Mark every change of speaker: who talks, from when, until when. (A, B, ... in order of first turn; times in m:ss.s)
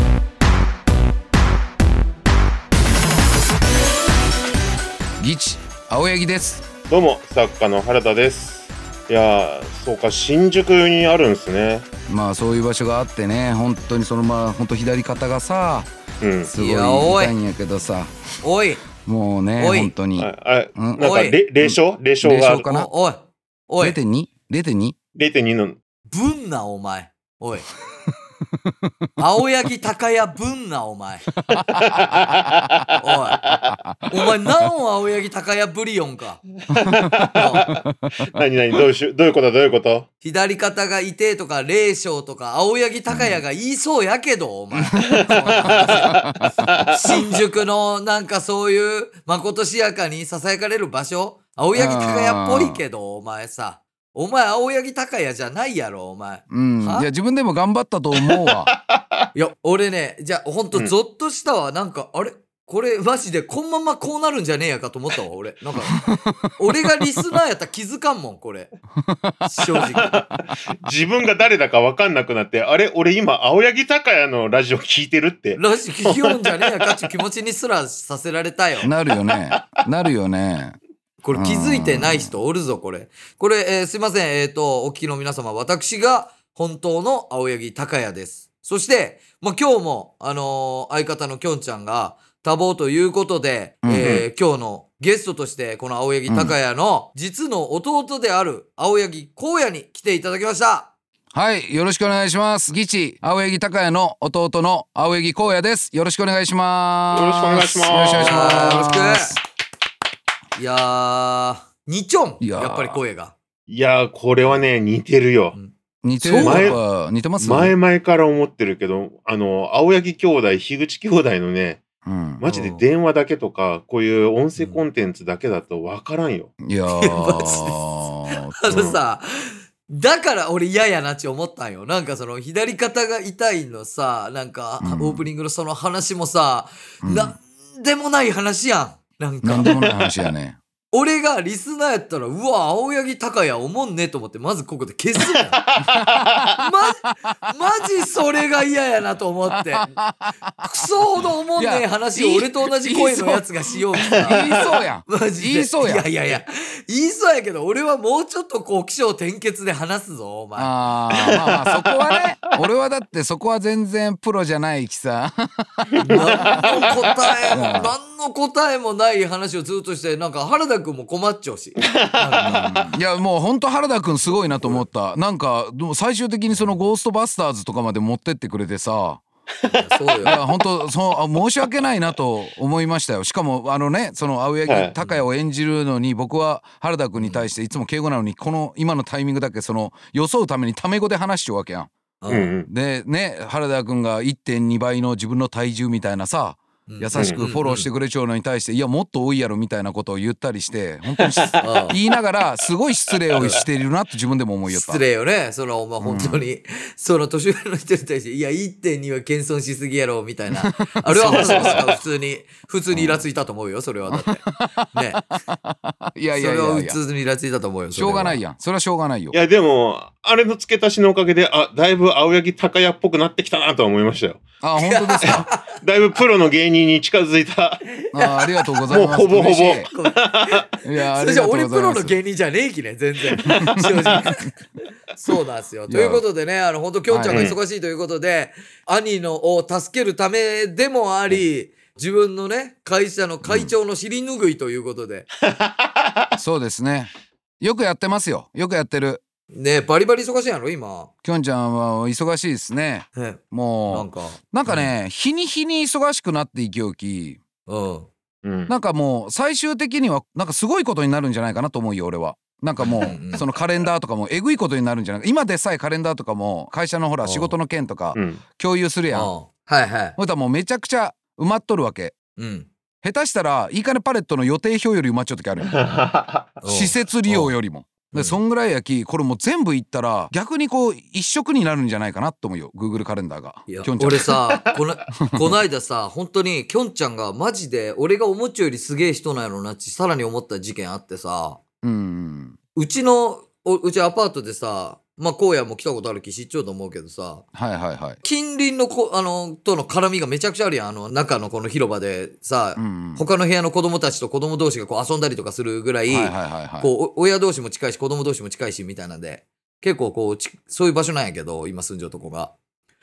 0:05.2-0:06.7 A
0:06.9-0:11.9 B
0:12.1-0:15.9 A
0:16.2-0:16.5 B
0:16.4-0:18.1 A
0:16.5-0:17.4 C
0:18.4-0:18.8 C
0:19.0-0:22.9 A
0:19.6-0:19.9 C
0:20.2-0:22.7 B
0:21.0-0:21.4 C
0:22.7-0:24.0 C
0:23.8-0:25.0 A
0:25.1-0:25.8 B
0:26.1-0:27.7 C
0:28.6-0:28.9 A
0:29.2-0:31.3 C
0:31.5-0:32.8 A
0:31.6-0:32.9 B
0:33.0-0:33.4 C
0:33.7-0:34.4 A
0:34.1-0:36.4 C
0:36.7-0:38.3 A
0:36.7-0:40.1 B
0:37.3-0:37.7 C
0:40.2-0:46.2 C
0:43.1-0:43.4 A
0:44.9-0:46.9 A
0:45.1-0:46.0 B
0:46.6-0:47.0 B
0:46.9-0:57.1 C
0:51.7-0:52.8 A
0:56.5-0:58.7 A
0:58.2-0:59.0 B
0:59.3-1:08.7 C
1:05.9-1:06.5 A
1:09.0-1:09.9 A
1:09.4-1:10.2 C
1:10.0-1:17.0 B
1:15.6-1:18.9 C
1:18.8-1:20.8 A
1:21.2-1:40.9 C
1:21.3-1:22.3 A
1:33.8-1:34.1 A
1:34.0-1:34.2 B
1:36.3-1:36.5 A
1:41.3-1:49.3 A
1:47.1-1:48.8 B
1:48.1-1:49.4 C
1:50.6-1:53.3 C
1:52.4-1:53.0 A
1:53.7-1:55.6 B
1:55.5-1:56.8 C
1:56.0-1:57.8 A
1:56.4-1:56.8 B
1:57.4-2:01.8 B
2:02.0-2:02.4 A
2:02.4-2:06.5 B
2:02.4-2:02.8 C
2:04.6-2:04.8 C
2:06.6-2:08.8 A
2:06.9-2:20.1 C
2:08.7-2:09.0 B
2:14.8-2:15.3 A
2:17.0-2:17.3 A
2:19.4-2:20.6 A
2:20.9-2:25.6 C
2:25.7-2:26.5 B
2:25.8-2:26.7 A
2:26.6-2:29.9 C
2:29.5-2:36.4 A
2:30.6-2:41.4 C
2:40.6-2:46.7 A
2:41.3-2:42.2 B
2:46.0-2:47.3 B
2:46.0-2:52.8 C
2:47.5-2:47.9 A
2:51.8-2:52.7 B
2:52.4-2:59.2 A
2:54.4-2:54.8 B
2:59.7-3:00.4 C
3:00.1-3:00.4 B
3:00.2-3:11.9 A
3:04.7-3:05.0 B
3:07.2-3:07.5 C
3:12.2-3:12.5 C
3:12.3-3:12.7 B
3:12.7-3:25.0 A
3:16.9-3:17.9 C
3:17.1-3:17.4 B
3:21.2-3:21.8 B
3:21.6-3:22.0 C
3:24.7-3:35.3 C
3:26.0-3:26.4 A
3:30.5-3:32.0 A
3:31.2-3:31.8 B
3:32.9-3:33.2 A
3:34.1-3:37.0 A
3:36.3-3:38.4 C
3:37.9-3:39.4 A
3:39.3-3:44.4 B
3:44.6-3:45.4 A
3:44.8-3:45.7 C
3:45.2-3:47.8 B
3:48.0-3:48.7 C
3:48.1-3:49.9 A
3:48.9-3:50.6 B
3:49.8-3:54.5 C
3:50.8-3:52.2 A
3:53.4-3:54.2 A
3:55.1-4:05.3 C
3:55.9-3:56.2 A
3:57.1-3:57.5 A
3:57.3-3:57.6 B
4:03.4-4:03.7 A
4:05.5-4:06.2 B
4:06.4-4:09.2 A
4:09.5-4:11.1 C
4:11.2-4:17.4 A
4:13.2-4:14.9 C
4:17.7-4:18.1 C
4:18.4-4:18.7 B
4:18.7-4:29.3 A
4:22.8-4:23.4 C
4:27.2-4:27.5 C
4:28.1-4:28.4 B
4:29.1-4:30.2 C
4:30.2-4:32.2 A
4:32.4-4:32.7 C
4:33.0-4:35.9 A
4:35.7-4:36.5 B
4:36.6-4:37.5 C
4:36.6-4:44.3 A
4:38.1-4:38.4 C
4:43.7-4:51.6 C
4:45.2-4:45.6 A
4:51.8-4:52.6 A
4:52.8-4:57.4 C
4:57.5-4:58.2 A
4:58.2-5:12.5 C
5:02.8-5:03.2 A
5:06.1-5:06.9 A